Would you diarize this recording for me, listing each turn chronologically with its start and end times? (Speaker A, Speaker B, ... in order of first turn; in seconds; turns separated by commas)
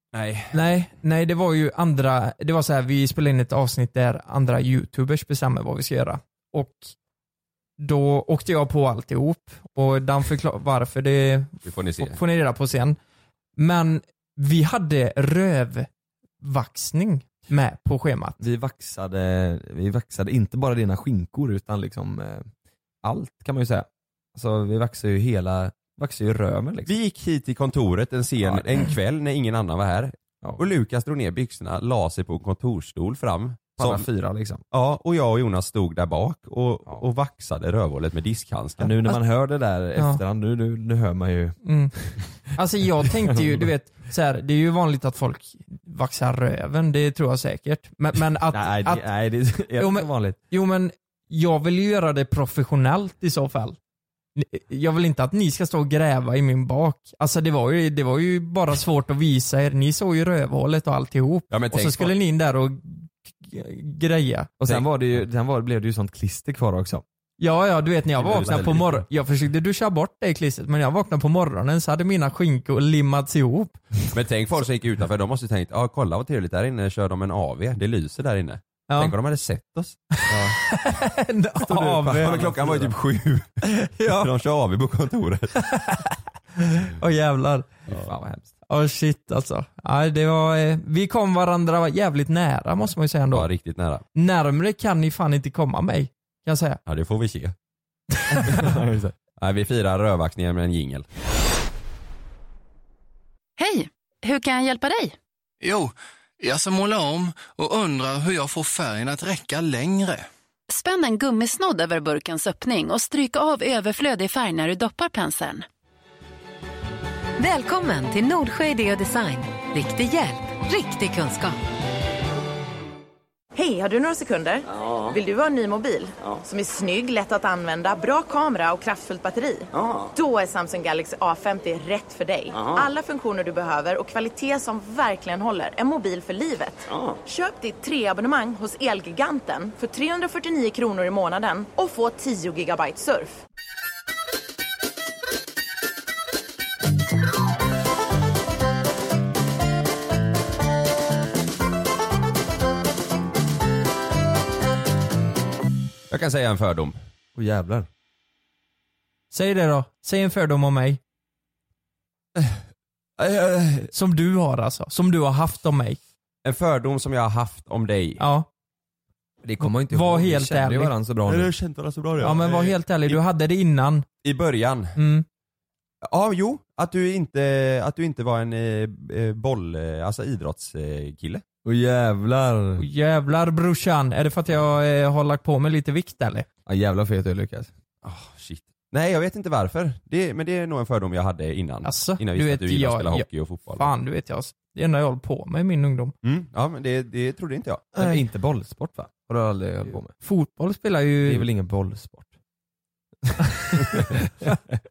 Speaker A: 0.1-0.5, Speaker B: 0.5-6.9, Speaker B: 7.8-13.0, Speaker A: 11.6-12.2, Speaker B: 13.6-15.9, Speaker B: 16.4-18.4, Speaker C: 18.4-22.5, Speaker C: 23.0-26.9, Speaker A: 26.9-34.0, Speaker C: 28.4-28.7, Speaker C: 33.8-34.6, Speaker A: 34.7-39.0, Speaker C: 38.8-42.3, Speaker B: 40.0-40.2, Speaker B: 41.6-41.9, Speaker B: 42.4-49.0, Speaker C: 43.3-43.6, Speaker C: 48.5-50.4, Speaker B: 49.7-53.8, Speaker B: 54.4-64.5, Speaker A: 61.5-62.1, Speaker C: 64.6-67.0, Speaker B: 67.4-73.8, Speaker A: 68.2-69.0, Speaker C: 68.2-68.8, Speaker A: 74.1-80.0, Speaker B: 80.2-82.4, Speaker C: 80.3-80.6, Speaker C: 81.6-82.9, Speaker A: 82.2-85.5, Speaker B: 83.6-84.3, Speaker B: 85.6-87.7, Speaker C: 87.9-88.5, Speaker B: 88.7-93.5, Speaker A: 93.3-94.0, Speaker B: 94.1-96.8, Speaker A: 96.8-97.5, Speaker B: 98.2-98.6, Speaker C: 98.3-99.1, Speaker A: 99.4-101.0, Speaker D: 103.6-105.2, Speaker E: 105.6-110.2, Speaker D: 110.7-115.6, Speaker F: 117.4-121.6, Speaker G: 123.5-143.4, Speaker A: 156.1-156.9, Speaker C: 157.3-157.9, Speaker B: 159.3-161.0, Speaker A: 162.3-162.6, Speaker A: 163.2-163.9, Speaker B: 163.9-166.0, Speaker A: 166.4-168.2, Speaker B: 168.2-168.5, Speaker C: 169.4-171.5, Speaker B: 169.6-170.9, Speaker A: 171.3-173.2, Speaker B: 172.2-174.0, Speaker A: 174.2-175.0, Speaker B: 175.0-175.2, Speaker A: 176.0-181.4, Speaker C: 181.6-182.8, Speaker B: 182.8-186.5, Speaker C: 186.7-187.7, Speaker A: 188.0-193.9, Speaker B: 191.8-196.1, Speaker A: 196.2-197.9, Speaker C: 197.9-200.1, Speaker B: 200.2-201.5, Speaker C: 201.2-202.3, Speaker C: 203.3-204.5, Speaker B: 203.6-204.5